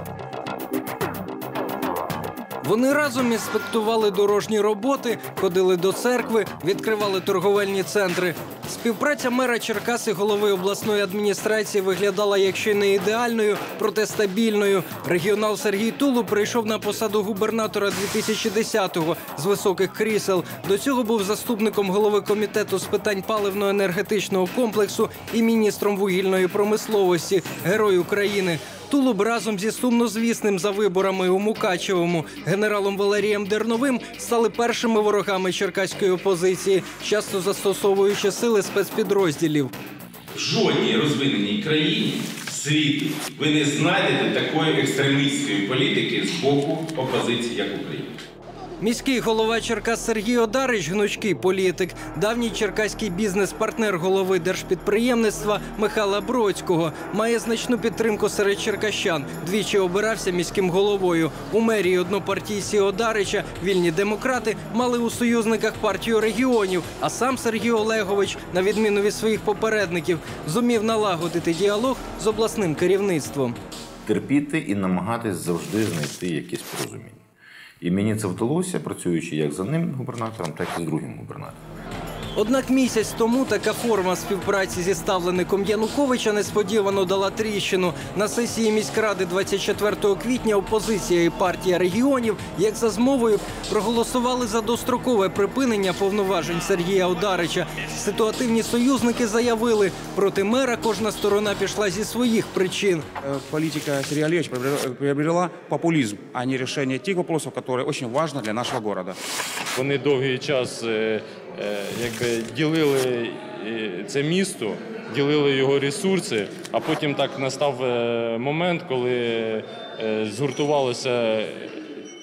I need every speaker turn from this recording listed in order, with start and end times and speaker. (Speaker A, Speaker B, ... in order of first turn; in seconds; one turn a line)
Speaker A: 2.6-39.7
Speaker B: 40.4-48.1
Speaker A: 48.8-73.6
Speaker C: 74.1-77.2
Speaker C: 77.8-81.6
Speaker A: 82.4-103.0
Speaker D: 103.2-109.2
Speaker E: 109.8-121.8